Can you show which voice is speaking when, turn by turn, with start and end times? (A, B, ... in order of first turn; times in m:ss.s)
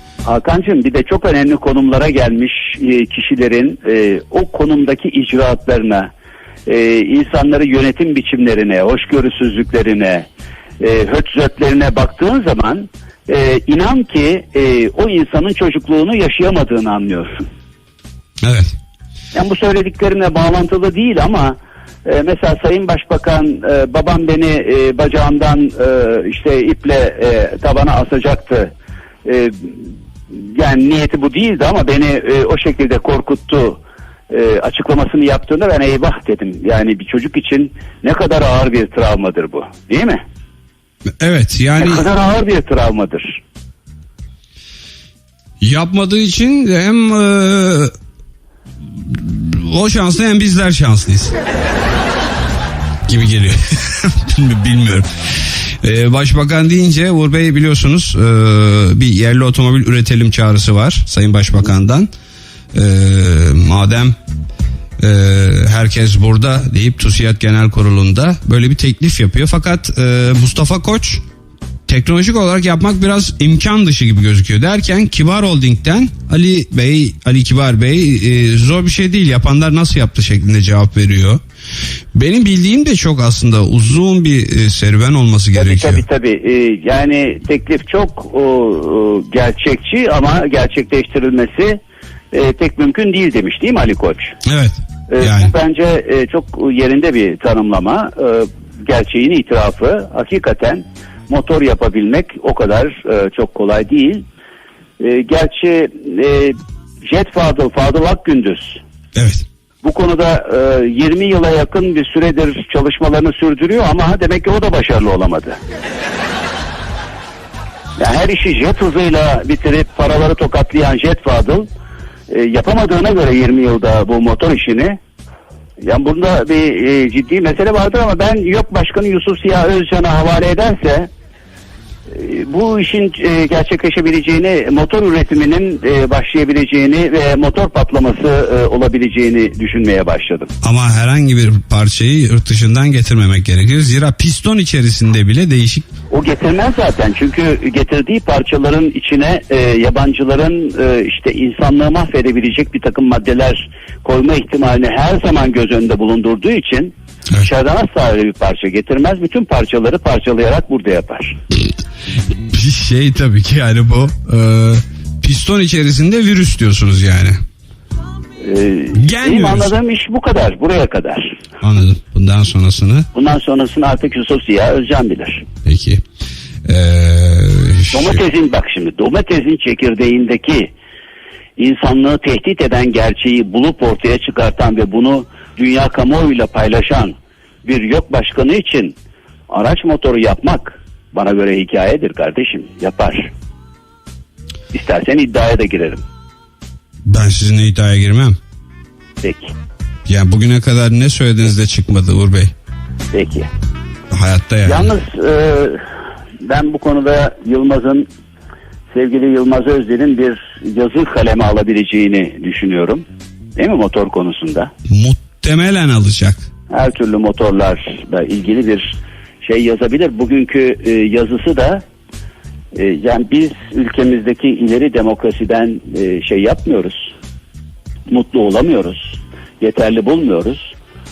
0:00.2-0:06.1 A
0:06.7-0:10.3 A
0:10.8-0:17.4 A
0:18.4-0:18.7 B
0:19.3-0:28.7 A
0:29.2-0:40.2 A
0:41.2-0:42.1 B
0:41.8-0:43.4 A
0:45.6-0:47.9 B
0:49.0-0:51.3 B
0:53.0-1:02.1 B
1:02.7-1:04.2 B
1:05.0-1:11.2 B
1:11.9-1:21.4 B
1:22.1-1:26.0 B
1:25.5-1:31.8 A
1:32.3-1:34.4 A
1:34.4-1:35.5 B
1:35.1-1:44.2 A
1:45.0-1:48.8 A
1:49.1-1:49.4 B
1:49.8-1:55.6 A
1:58.0-2:01.7 A
2:02.3-2:05.0 A
2:05.8-2:11.1 A
2:12.1-2:20.5 A
2:20.6-2:25.9 B
2:26.1-2:41.4 A
2:42.4-2:47.4 B
2:48.4-2:51.4 A
2:48.9-2:49.7 B
2:51.6-2:53.1 B
2:53.1-2:55.5 A
2:55.6-2:56.0 B
2:56.6-2:58.2 B
2:57.9-3:00.7 A
3:01.6-3:09.0 A
3:09.5-3:13.3 A
3:14.7-3:16.0 A
3:17.0-3:18.4 B
3:19.2-3:19.5 A
3:20.0-3:22.5 B
3:23.1-3:23.5 A
3:24.1-3:24.9 B
3:24.6-3:25.8 A
3:26.4-3:28.1 A
3:28.9-3:33.0 A
3:33.6-3:34.7 A
3:34.9-3:36.4 B
3:36.7-3:41.8 A
3:42.7-3:47.1 A
3:48.1-3:50.7 A